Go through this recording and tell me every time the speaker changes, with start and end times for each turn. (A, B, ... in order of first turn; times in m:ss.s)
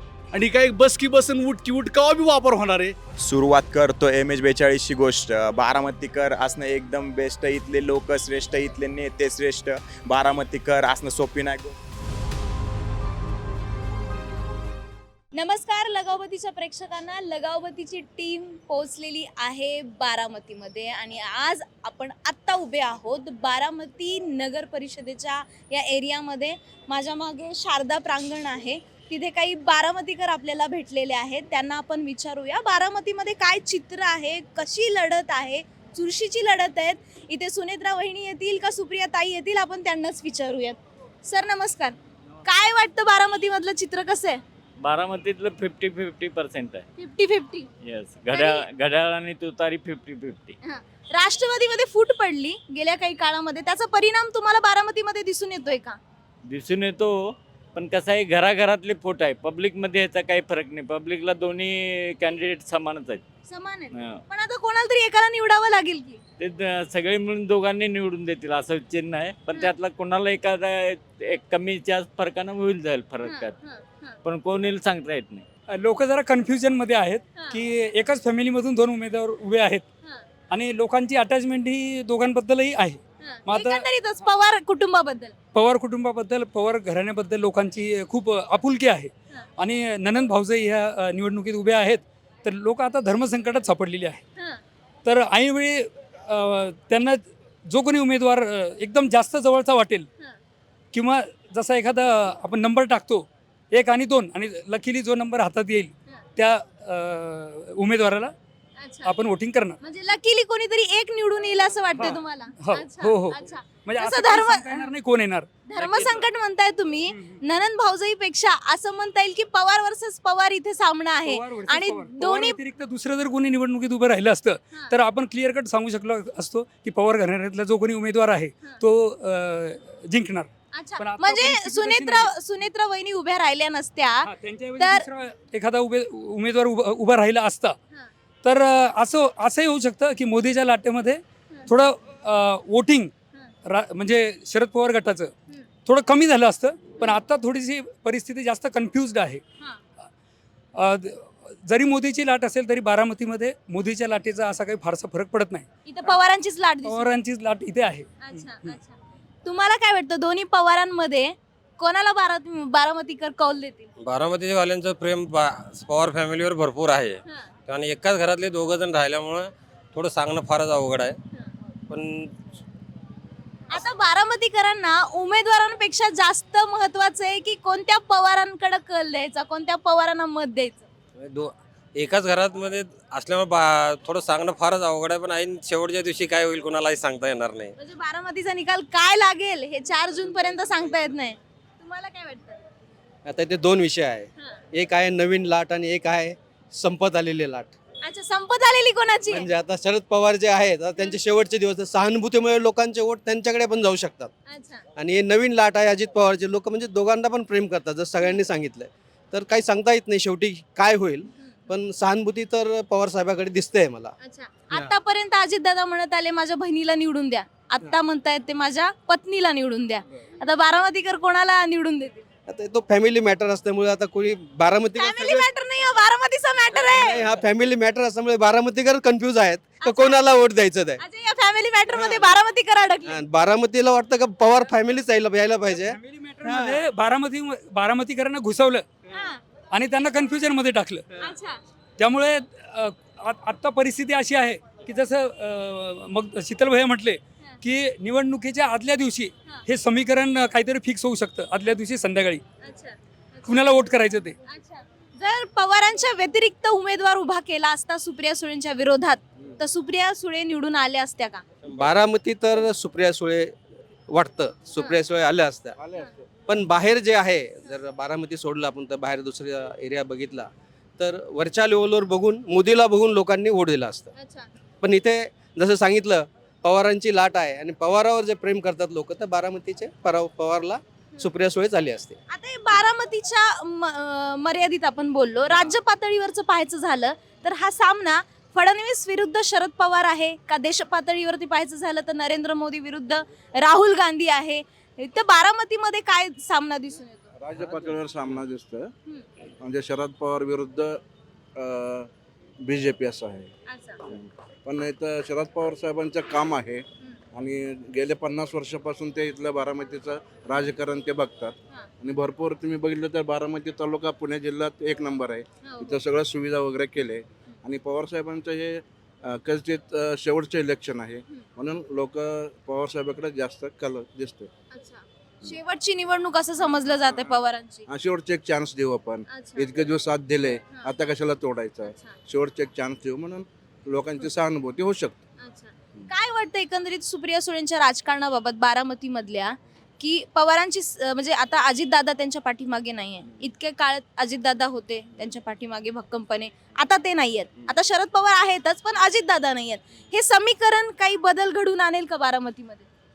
0:00.3-0:03.0 A
0:03.2-0:11.7 B
0:15.3-0:44.4 C
0:44.8-0:46.8 D
0:47.0-0:47.7 C
0:47.8-0:50.6 D
0:48.3-0:48.6 C
0:50.6-0:56.0 C
0:56.4-1:03.2 D
1:03.5-1:06.2 C
1:03.9-1:04.2 D
1:06.4-1:13.5 D
1:13.2-1:14.2 C
1:14.2-1:15.4 D
1:15.7-1:19.8 E
1:20.5-1:23.9 E
1:23.2-1:25.3 C
1:25.5-1:34.2 E
1:35.0-1:40.1 E
1:40.9-1:48.3 E
1:48.8-1:49.1 C
1:49.0-1:49.8 E
1:49.8-1:54.9 C
1:51.9-1:56.2 E
1:55.7-2:02.6 C
1:57.1-1:57.4 E
2:01.2-2:12.3 E
2:10.7-2:15.0 C
2:14.2-2:17.8 E
2:18.4-2:23.1 E
2:23.6-2:25.3 E
2:25.8-2:29.4 E
2:30.7-2:36.1 E
2:35.8-2:37.1 C
2:36.8-2:38.8 E
2:38.2-2:43.9 C
2:44.0-2:51.2 F
2:51.9-2:52.3 F
2:53.7-3:00.8 C
3:01.2-3:07.7 F
3:07.8-3:12.6 C
3:13.2-3:17.7 G
3:18.0-3:19.5 C
3:19.3-3:24.3 G
3:24.5-3:24.8 C
3:25.0-3:34.1 G
3:34.2-3:42.2 C
3:34.7-3:34.9 G
3:42.4-3:45.5 G
3:44.9-3:47.3 C
3:46.7-3:51.0 G
3:49.8-3:50.4 C
3:51.0-3:53.2 C
3:51.9-3:52.3 G
3:53.0-3:56.8 G
3:55.7-3:58.8 E
3:59.1-3:59.4 C
3:59.7-4:01.3 E
4:01.2-4:01.6 C
4:02.0-4:12.4 E
4:12.6-4:13.7 C
4:13.4-4:14.4 E
4:14.4-4:21.4 C
4:21.7-4:23.6 G
4:24.1-4:25.8 G
4:25.8-4:26.1 H
4:26.5-4:34.1 G
4:34.2-4:34.5 C
4:34.8-4:42.2 G
4:42.3-4:57.3 C
4:57.4-4:58.9 H
4:59.6-5:01.0 H
5:01.6-5:02.1 H
5:02.6-5:03.5 H
5:03.7-5:04.0 C
5:04.1-5:24.5 H
5:15.6-5:15.9 C
5:24.7-5:27.8 C
5:27.9-5:35.2 H
5:29.3-5:29.7 C
5:31.8-5:32.1 C
5:35.4-5:52.9 C